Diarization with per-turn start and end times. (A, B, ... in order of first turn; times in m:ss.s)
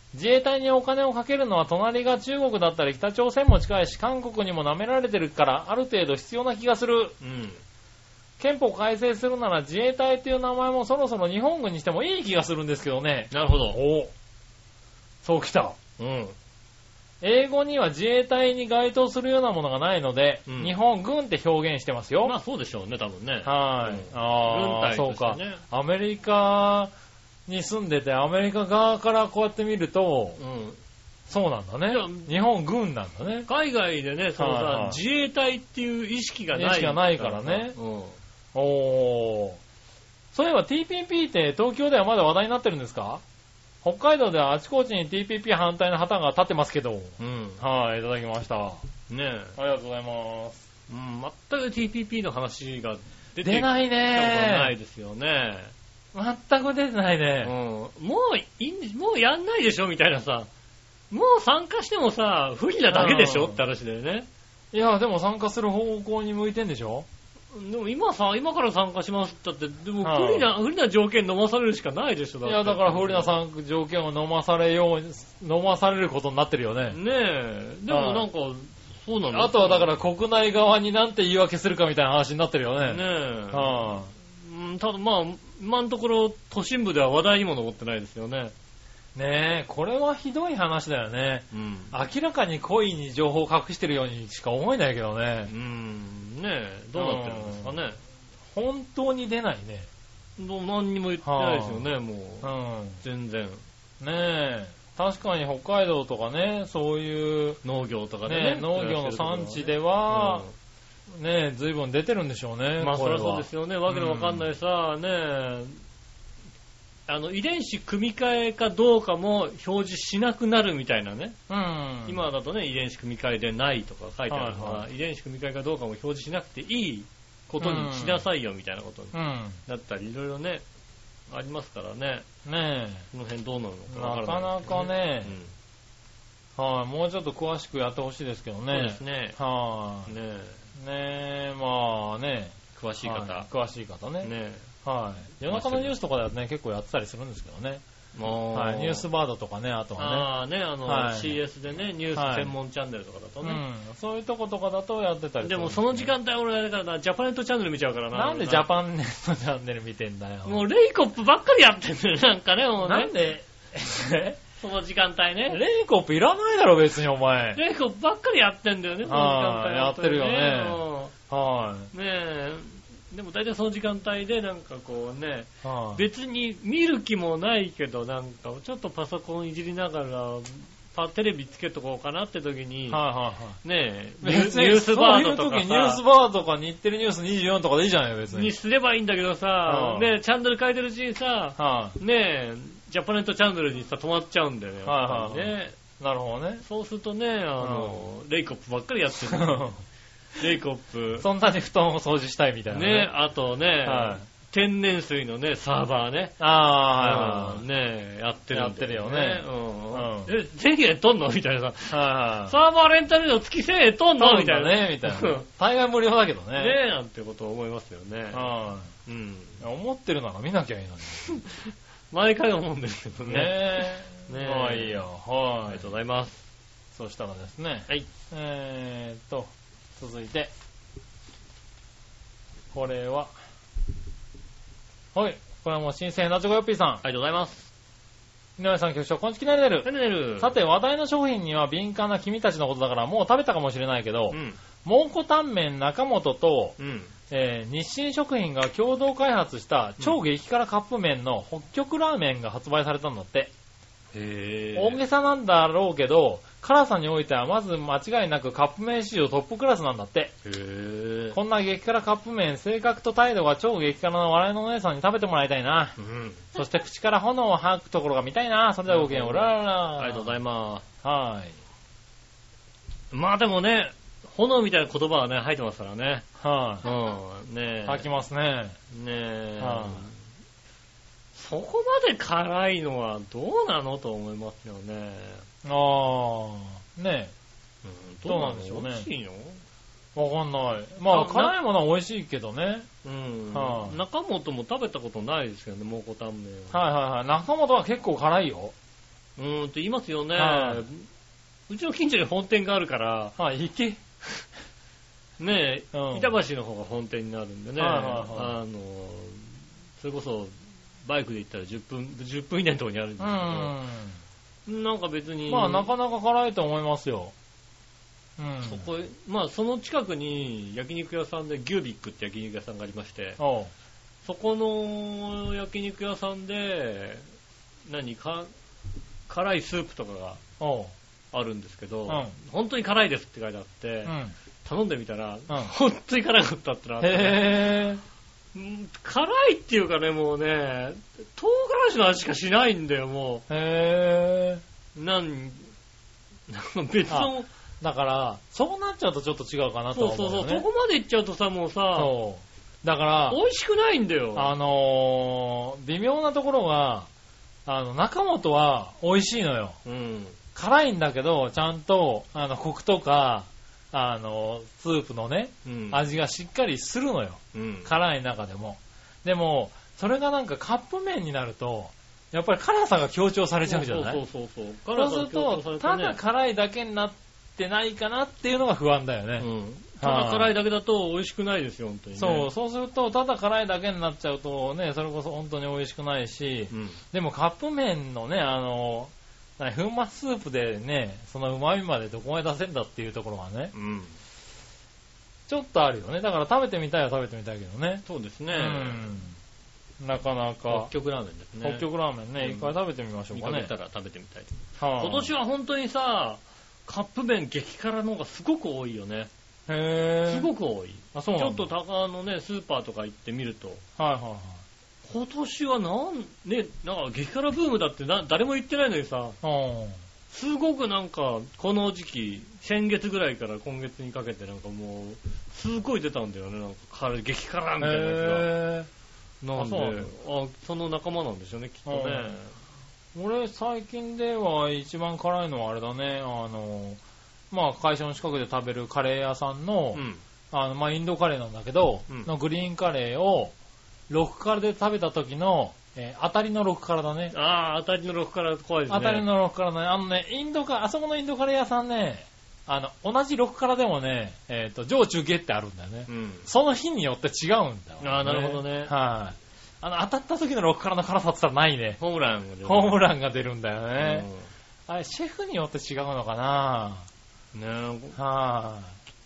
0:00.1-0:07.2 A
0:07.2-0:07.6 B
0:08.4-0:14.1 A
0:13.3-0:13.8 B
0:15.2-0:15.8 A
0:16.0-0:16.4 B
0:17.2-0:22.4 A
0:20.5-0:20.7 B
0:22.2-0:25.6 B
0:23.4-0:26.9 A
0:27.5-0:30.4 A
0:30.4-0:30.8 B
0:31.3-0:33.5 A
0:31.9-0:32.3 B
0:33.5-0:38.2 B
0:34.4-0:35.0 A
0:36.5-0:37.8 A
0:38.5-0:39.6 A
0:40.3-0:43.2 A
0:43.8-0:48.8 A
0:47.2-0:47.6 B
0:49.1-0:49.6 B
0:49.6-0:50.6 A
0:50.9-0:55.7 B
0:53.4-0:54.7 A
0:56.1-0:57.5 A
0:57.4-1:00.5 B
1:01.1-1:04.3 B
1:02.9-1:03.6 A
1:04.7-1:07.1 A
1:07.5-1:13.4 B
1:10.0-1:10.5 A
1:12.4-1:17.0 A
1:16.9-1:19.9 B
1:17.9-1:18.3 A
1:19.3-1:24.1 A
1:22.8-1:28.5 B
1:29.2-1:35.5 A
1:31.5-1:31.9 B
1:35.5-1:38.0 B
1:37.0-1:37.8 A
1:38.5-1:39.9 A
1:40.4-1:42.5 B
1:41.2-1:41.9 A
1:42.4-1:43.0 A
1:43.0-1:43.6 B
1:44.0-1:47.6 A
1:47.6-1:50.5 B
1:48.2-1:50.5 A
1:51.1-1:54.5 A
1:52.8-1:55.8 B
1:57.1-2:01.4 B
2:01.5-2:02.2 A
2:02.1-2:10.6 B
2:04.3-2:04.9 A
2:07.6-2:08.3 A
2:09.1-2:09.6 A
2:11.3-2:12.3 B
2:12.4-2:13.1 A
2:13.1-2:15.5 B
2:13.9-2:15.4 A
2:16.6-2:20.1 A
2:18.7-2:19.4 B
2:20.1-2:20.6 B
2:20.8-2:24.3 A
2:22.8-2:23.5 B
2:24.2-2:24.7 B
2:24.8-2:27.8 A
2:25.5-2:25.9 B
2:28.2-2:29.0 B
2:28.5-2:30.3 A
2:30.0-2:33.6 B
2:30.8-2:31.4 A
2:32.2-2:32.5 A
2:33.4-2:36.1 A
2:35.4-2:38.7 B
2:38.1-2:40.6 A
2:40.4-2:43.1 B
2:42.8-2:44.4 A
2:44.6-2:45.6 B
2:45.5-2:47.6 A
2:47.6-2:51.1 B
2:49.0-2:51.9 A
2:51.9-3:03.0 B
2:55.6-2:56.0 A
3:02.9-3:03.6 A
3:03.6-3:06.0 B
3:04.2-3:08.5 A
3:08.3-3:15.8 B
3:09.7-3:10.2 A
3:11.6-3:12.0 A
3:14.8-3:16.6 A
3:16.6-3:19.8 B
3:17.6-3:18.0 A
3:19.3-3:19.8 A
3:20.4-3:21.3 B
3:21.2-3:23.1 A
3:22.7-3:26.4 B
3:23.8-3:24.3 A
3:26.4-3:27.6 A
3:27.0-3:35.4 B
3:28.5-3:30.3 A
3:31.9-3:32.6 A
3:34.2-3:36.8 A
3:36.6-3:38.5 B
3:38.3-3:38.9 A
3:39.1-3:39.6 B
3:39.6-3:41.3 A
3:41.2-3:45.0 B
3:43.2-3:45.9 A
3:45.7-3:46.4 B
3:46.9-3:50.5 A
3:52.7-3:53.3 A
3:55.1-3:57.0 A
3:57.0-3:57.7 B
3:58.6-4:06.8 A
3:59.8-4:00.5 B
4:04.3-4:04.6 B
4:06.8-4:07.1 B
4:07.3-4:13.5 A
4:14.1-4:15.0 B
4:14.8-4:20.3 A
4:20.4-4:21.4 B
4:21.3-4:26.0 A
4:26.0-4:26.5 B
4:26.5-4:30.3 A
4:28.9-4:30.8 B
4:31.0-4:31.6 A
4:33.1-4:36.3 B
4:36.4-4:36.9 A
4:36.8-4:38.1 B
4:37.8-4:38.8 A
4:38.9-4:40.2 B
4:39.6-4:40.1 A
4:41.3-4:45.5 B
4:45.6-4:47.3 A
4:47.8-4:49.6 B
4:48.3-4:49.1 A
4:50.2-4:52.9 A
4:51.1-4:51.6 B
4:53.0-4:56.8 B
4:53.5-4:54.0 A
4:56.7-4:58.7 A
4:59.4-5:01.1 B
5:00.4-5:00.9 A
5:01.7-5:03.4 B
5:03.4-5:04.0 A
5:05.4-5:10.5 B
5:05.9-5:06.3 A
5:07.8-5:08.6 A
5:11.0-5:13.8 B
5:13.2-5:14.2 A
5:14.7-5:15.9 B
5:15.5-5:17.3 A
5:18.4-5:18.9 A
5:18.6-5:23.4 B
5:23.4-5:23.7 A
5:24.2-5:27.3 B
5:27.9-5:28.5 B
5:29.3-5:30.4 B
5:30.6-5:30.9 A
5:31.3-5:37.8 B
5:32.1-5:32.4 A
5:34.1-5:34.4 A
5:37.0-5:38.0 A
5:38.5-5:43.4 B
5:43.5-5:44.6 A
5:45.0-5:45.7 B
5:46.5-5:47.5 B
5:47.1-5:50.7 A
5:49.9-5:52.1 B
5:52.0-5:53.4 A
5:53.3-5:54.5 B
5:54.4-5:57.1 A
5:57.7-5:59.8 A
5:59.8-6:00.4 B
6:00.6-6:14.2 A
6:05.6-6:06.0 B
6:07.5-6:07.9 B
6:13.7-6:16.2 B
6:15.0-6:19.5 A
6:19.4-6:22.5 B
6:20.0-6:20.5 A
6:22.2-6:33.7 A
6:26.7-6:27.0 B
6:33.7-6:34.2 B
6:35.5-6:39.4 A
6:38.0-6:39.0 B
6:40.0-6:40.9 A
6:40.7-6:41.9 B
6:41.6-6:43.7 A
6:42.4-6:42.8 B
6:43.3-6:49.3 B
6:44.8-6:45.3 A
6:49.7-6:50.5 A
6:50.3-6:53.8 B
6:51.1-6:51.7 A
6:54.0-6:54.6 A
6:55.0-6:59.4 B
6:59.4-7:00.0 A
7:00.3-7:08.5 B
7:07.8-7:08.9 A
7:09.4-7:12.6 B
7:09.6-7:10.1 A
7:11.9-7:12.3 A
7:13.2-7:17.0 A
7:17.5-7:23.5 A
7:19.9-7:20.2 B
7:24.1-7:27.3 A
7:27.3-7:29.3 B
7:28.9-7:42.0 A
7:36.1-7:36.5 B
7:38.0-7:38.9 B
7:42.0-7:43.0 B
7:42.6-7:44.3 A
7:44.0-7:44.5 B
7:44.9-7:47.1 A
7:47.5-7:48.2 B
7:48.2-7:49.0 A